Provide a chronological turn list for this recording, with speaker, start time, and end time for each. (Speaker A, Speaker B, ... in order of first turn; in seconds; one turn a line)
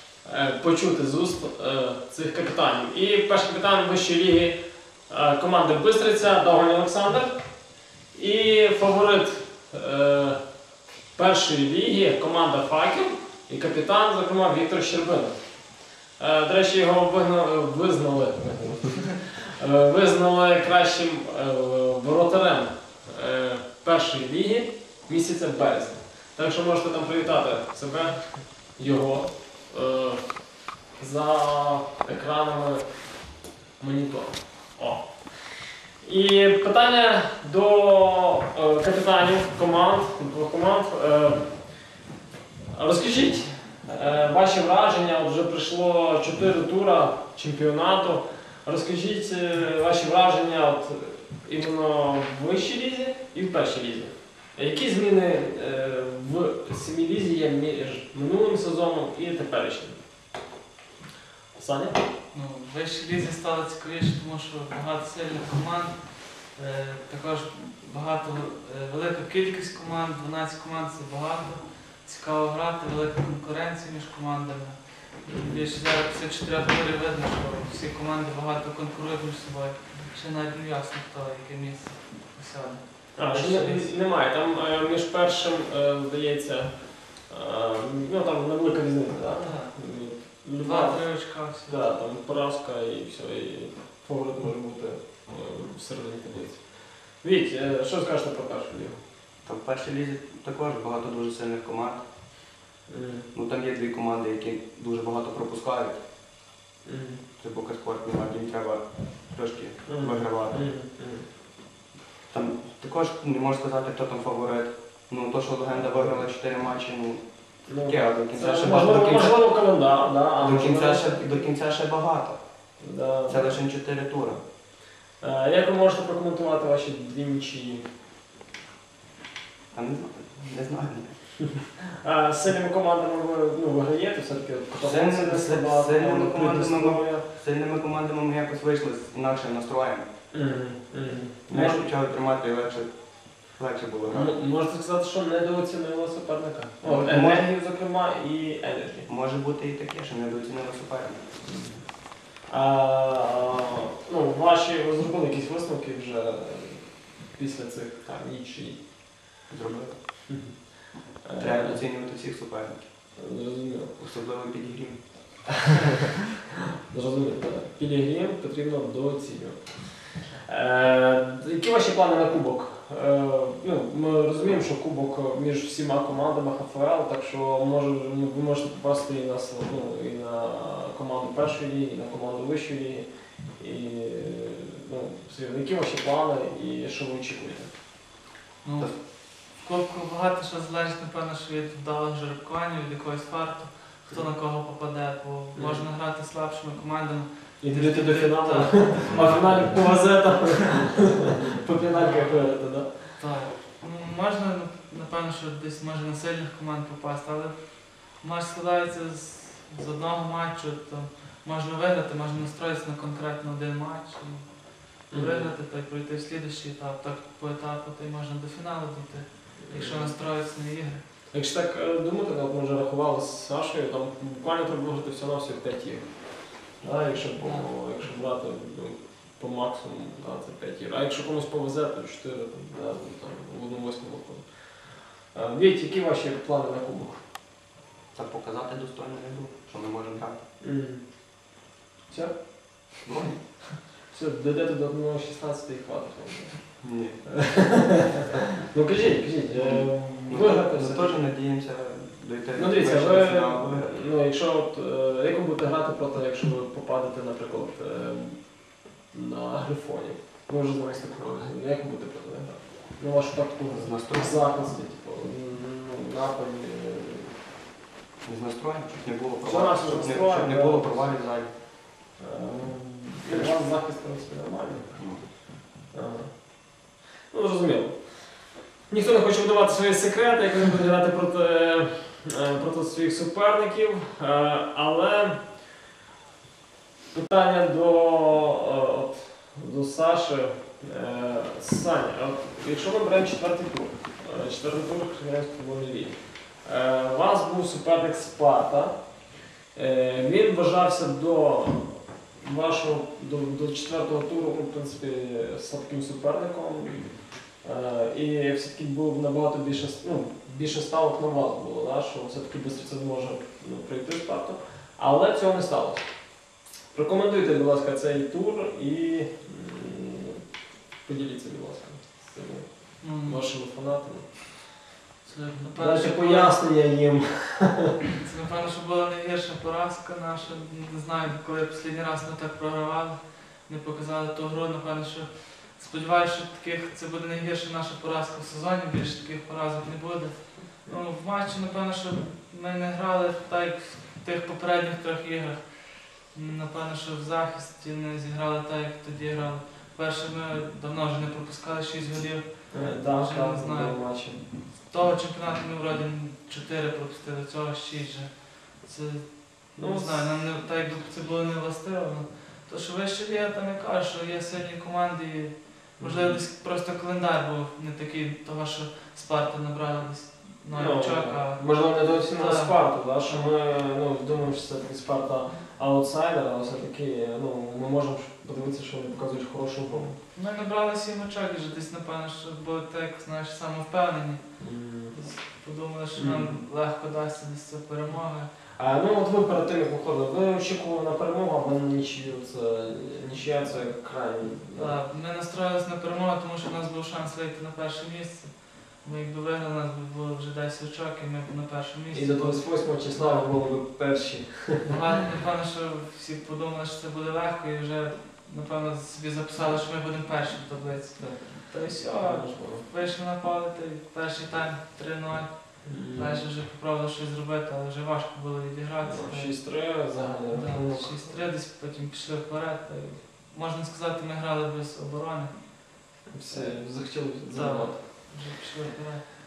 Speaker A: 0.2-4.6
Speaker A: 5.1-7.3
Speaker A: 8.1-10.4
Speaker A: 11.2-15.4
Speaker A: 16.2-30.2
Speaker A: 31.0-32.9
Speaker A: 33.8-35.1
Speaker A: 36.0-41.5
Speaker A: 42.7-60.0
Speaker A: 61.5-62.0
Speaker B: 62.3-84.0
Speaker A: 75.2-75.7
Speaker A: 83.2-86.7
Speaker A: 87.3-99.0
Speaker B: 89.4-89.7
Speaker B: 90.6-91.9
Speaker C: 99.4-102.0
Speaker A: 102.9-103.3
Speaker C: 103.3-106.0
Speaker A: 106.8-107.2
Speaker C: 107.4-110.7
Speaker A: 109.9-111.3
Speaker C: 112.3-117.2
Speaker A: 115.7-116.3
Speaker A: 117.7-121.5
Speaker C: 117.8-119.4
Speaker C: 120.4-122.4
Speaker A: 122.8-123.5
Speaker C: 123.3-124.4
Speaker A: 125.2-127.8
Speaker C: 129.7-131.2
Speaker A: 132.0-137.2
Speaker C: 134.8-140.1
Speaker A: 140.3-141.9
Speaker C: 141.5-142.9
Speaker C: 143.5-144.3
Speaker A: 144.1-149.1
Speaker C: 146.8-147.5
Speaker C: 149.1-151.2
Speaker A: 151.4-151.9
Speaker A: 152.5-158.8
Speaker C: 159.5-160.0
Speaker A: 160.3-161.8
Speaker C: 161.4-162.9
Speaker A: 163.2-164.0
Speaker C: 164.0-165.5
Speaker A: 166.9-187.7
Speaker B: 188.6-200.2
Speaker A: 195.5-195.9
Speaker A: 197.6-203.3
Speaker B: 201.9-202.6
Speaker B: 203.2-221.0
Speaker A: 215.1-215.5
Speaker A: 219.6-220.1
Speaker A: 221.3-237.2
Speaker B: 227.3-227.7
Speaker C: 238.1-240.4
Speaker A: 240.6-241.0
Speaker A: 242.1-242.4
Speaker C: 243.0-243.4
Speaker A: 243.9-251.3
Speaker C: 246.8-247.3
Speaker C: 249.5-254.0
Speaker A: 252.5-267.4
Speaker C: 263.7-264.8
Speaker C: 268.2-271.5
Speaker A: 269.4-271.1
Speaker A: 272.2-275.0
Speaker C: 273.3-273.6
Speaker C: 274.9-275.2
Speaker A: 275.9-276.3
Speaker A: 277.3-278.4
Speaker A: 278.9-285.4
Speaker A: 287.1-298.9
Speaker A: 299.7-316.1
Speaker A: 316.9-320.4
Speaker A: 321.0-324.7
Speaker B: 323.0-323.5
Speaker B: 325.2-326.7
Speaker A: 325.7-328.0
Speaker B: 328.2-373.5
Speaker A: 352.7-354.4
Speaker A: 359.8-360.2
Speaker A: 366.0-366.4
Speaker A: 370.7-380.2
Speaker B: 380.3-388.5
Speaker A: 384.6-385.2
Speaker A: 386.1-386.6
Speaker A: 388.8-395.0
Speaker B: 394.7-403.5
Speaker A: 402.1-404.9
Speaker B: 404.9-419.7
Speaker A: 412.1-412.9
Speaker A: 415.9-416.4
Speaker A: 419.0-421.5
Speaker B: 420.5-426.0
Speaker A: 426.3-428.0
Speaker B: 426.5-429.3